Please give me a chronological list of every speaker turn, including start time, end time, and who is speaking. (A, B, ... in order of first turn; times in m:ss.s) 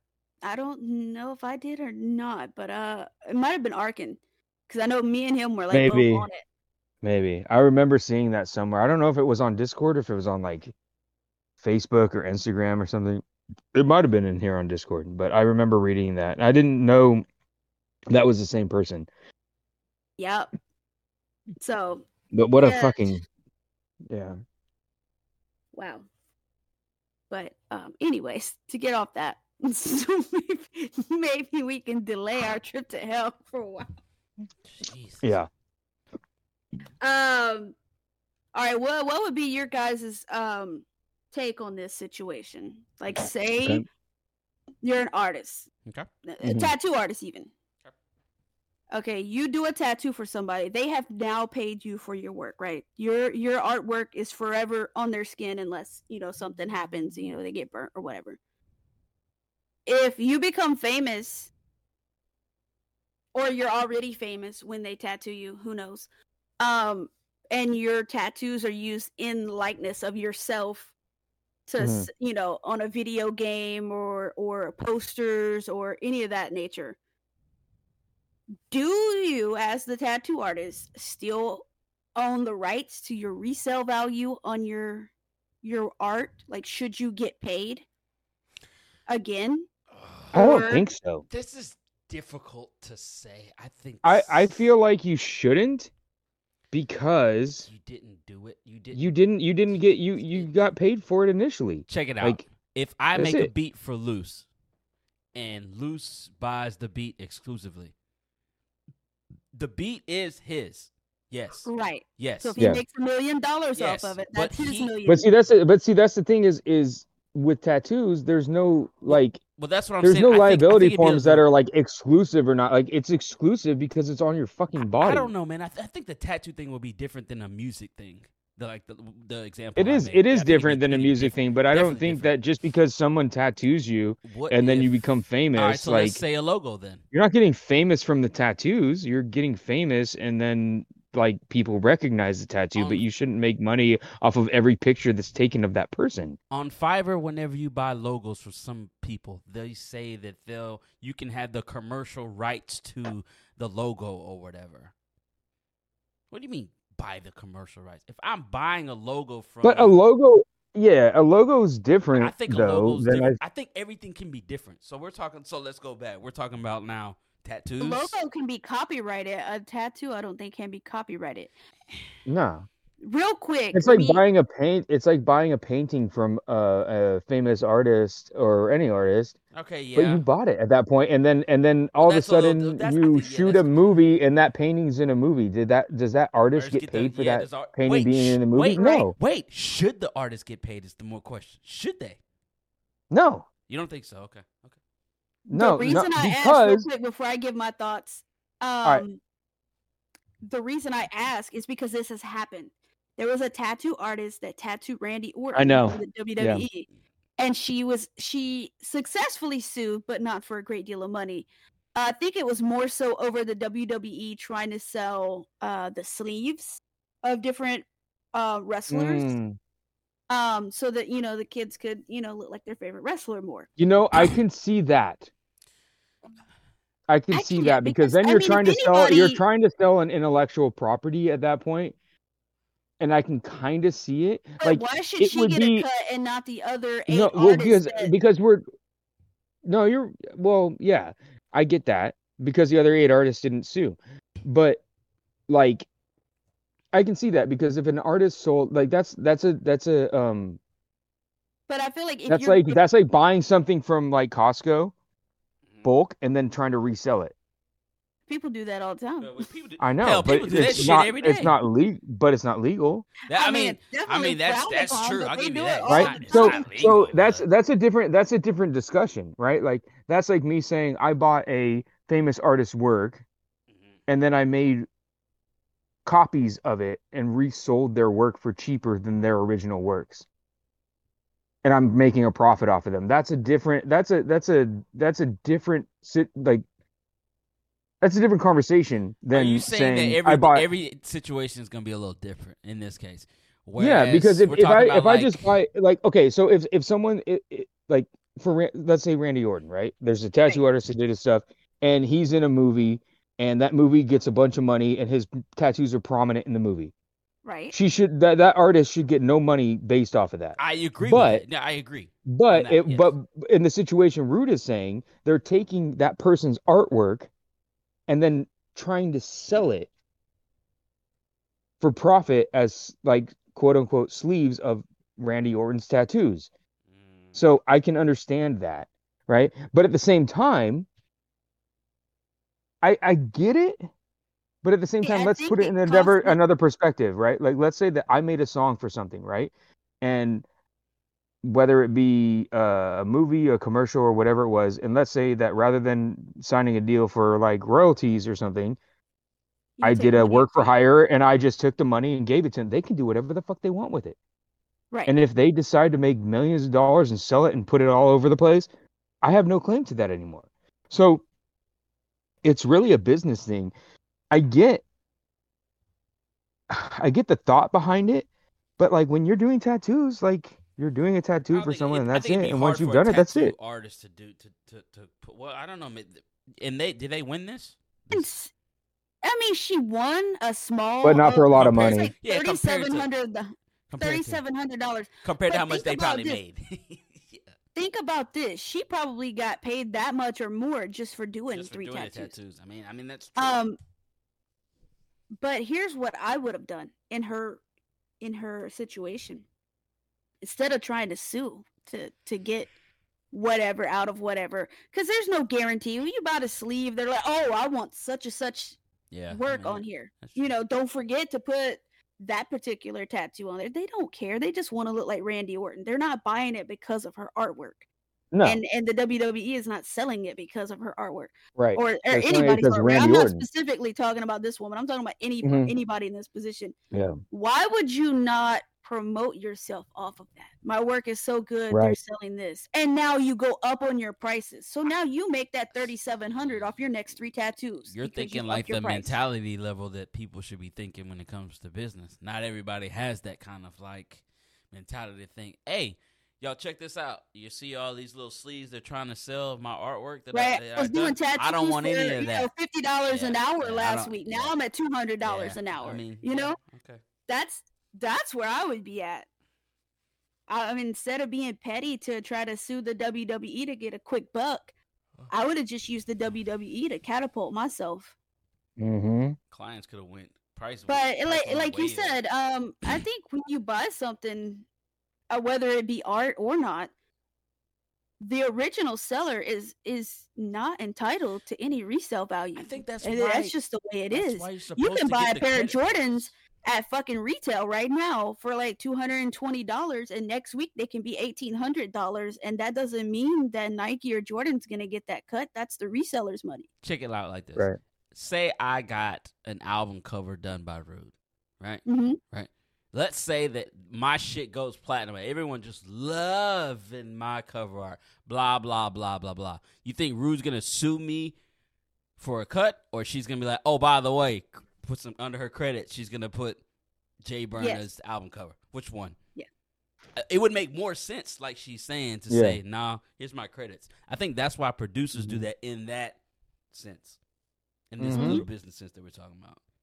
0:00.4-0:06.4 A
0:05.7-0:06.3 B
0:07.0-0:10.7 B
0:11.6-0:13.2 B
0:13.7-0:17.2 B
0:18.1-0:19.1 B
0:20.2-0:20.5 A
0:21.6-0:22.0 A
0:22.3-0:23.2 B
0:22.6-0:23.2 A
0:24.1-0:24.4 B
0:25.7-0:26.1 A
0:27.3-0:33.9 A
0:34.7-0:35.4 C
0:35.2-0:35.5 B
0:37.0-0:37.8 A
0:38.5-0:43.8 A
0:44.8-0:45.7 A
0:46.3-0:47.5 A
0:46.4-0:46.7 B
0:48.9-0:58.4 A
0:59.9-1:01.5 A
1:03.3-1:06.1 A
1:06.6-1:10.9 A
1:11.7-1:17.0 A
1:11.8-1:12.1 B
1:18.7-1:21.6 A
1:22.2-1:25.1 A
1:25.6-1:27.8 A
1:29.1-1:29.7 A
1:29.9-1:30.8 C
1:30.3-1:31.3 B
1:30.3-1:30.8 A
1:31.3-1:34.7 C
1:34.0-1:35.9 B
1:36.7-1:37.7 B
1:37.7-1:39.2 C
1:38.9-1:42.4 B
1:39.7-1:40.5 C
1:41.9-1:44.5 C
1:43.2-1:43.5 B
1:45.4-1:47.9 C
1:49.6-1:52.6 C
1:51.7-1:55.2 A
1:52.6-1:52.8 B
1:53.8-1:54.9 C
1:55.1-1:59.4 B
1:59.1-2:01.4 C
2:00.0-2:05.3 B
2:04.8-2:12.3 C
2:09.8-2:16.2 B
2:14.2-2:14.9 C
2:15.5-2:17.0 C
2:17.1-2:26.4 B
2:22.8-2:23.0 C
2:26.5-2:34.9 C
2:36.3-2:40.0 C
2:39.6-2:43.4 B
2:42.2-2:48.2 C
2:47.8-2:51.5 A
2:52.3-2:52.7 B
2:53.0-2:54.2 A
2:53.7-2:59.4 B
2:59.5-3:00.2 C
3:00.0-3:09.1 B
3:02.0-3:04.0 C
3:06.5-3:12.2 C
3:08.8-3:09.0 A
3:13.1-3:13.5 B
3:13.7-3:14.8 C
3:15.5-3:16.9 B
3:15.5-3:19.2 A
3:20.4-3:39.4 A
3:25.5-3:26.7 B
3:38.9-3:39.6 B
3:40.3-3:43.7 A
3:43.8-3:45.3 B
3:47.1-3:52.0 B
3:47.3-3:49.4 A
3:53.0-3:55.9 B
3:54.6-3:58.1 A
3:57.1-3:58.6 B
3:59.6-4:04.8 B
4:05.5-4:05.9 B
4:06.9-4:10.6 B
4:11.7-4:12.8 A
4:12.3-4:14.9 B
4:15.8-4:17.3 B
4:18.3-4:19.4 A
4:19.2-4:21.6 C
4:19.8-4:23.1 B
4:23.3-4:27.4 C
4:23.3-4:26.8 A
4:25.9-4:33.2 B
4:34.1-4:34.9 B
4:36.0-4:40.2 B
4:41.6-4:46.6 B
4:48.0-4:50.7 B
4:49.3-4:55.5 C
4:53.8-5:06.9 B
5:07.4-5:07.8 A
5:07.7-5:11.4 B
5:10.6-5:13.1 C
5:12.3-5:17.3 B
5:18.1-5:19.9 B
5:21.8-5:26.5 B
5:26.9-5:27.4 C
5:27.4-5:30.9 B
5:32.8-5:33.8 B
5:34.6-5:40.4 B
5:35.0-5:36.4 A
5:41.4-5:48.8 B
5:49.8-5:50.7 A
5:49.8-5:54.2 B
5:55.1-5:58.7 B
5:59.2-6:01.2 B
6:02.4-6:03.7 B
6:04.3-6:04.8 B
6:06.7-6:08.3 B
6:08.8-6:13.5 B
6:11.5-6:18.3 C
6:18.1-6:18.5 A
6:19.2-6:26.4 A
6:21.0-6:22.1 B
6:21.6-6:23.1 C
6:23.9-6:24.4 C
6:25.2-6:27.5 C
6:27.8-6:32.3 A
6:31.5-6:33.6 C
6:33.4-6:33.8 A
6:35.4-6:37.6 A
6:38.2-6:39.4 A
6:40.4-6:42.7 A
6:43.3-6:48.8 A
6:49.1-6:50.4 C
6:49.3-6:57.8 A
6:58.3-6:58.6 B
6:58.4-7:06.8 A
7:01.6-7:03.4 B
7:05.4-7:05.7 B
7:06.9-7:07.2 B
7:07.3-7:19.2 A
7:11.7-7:12.0 B
7:16.3-7:16.8 C
7:17.9-7:32.5 C
7:30.3-7:36.6 A
7:33.1-7:34.5 C
7:35.2-7:37.0 C
7:37.3-7:39.3 A
7:40.5-7:44.7 A
7:45.3-7:48.1 A
7:48.8-7:49.4 B
7:49.5-7:52.2 C
7:50.9-7:54.7 A
7:55.3-7:56.9 A
7:58.2-8:16.7 A
8:02.6-8:03.6 C
8:04.1-8:06.3 C
8:16.8-8:31.4 C
8:21.9-8:22.2 A
8:32.2-8:36.6 C
8:37.2-8:39.2 C
8:37.6-8:37.8 A
8:40.2-8:46.2 C
8:42.3-8:42.6 B
8:45.2-8:45.4 B
8:46.7-8:47.2 C
8:47.9-8:49.6 C
8:48.0-8:48.4 B
8:48.1-8:48.5 A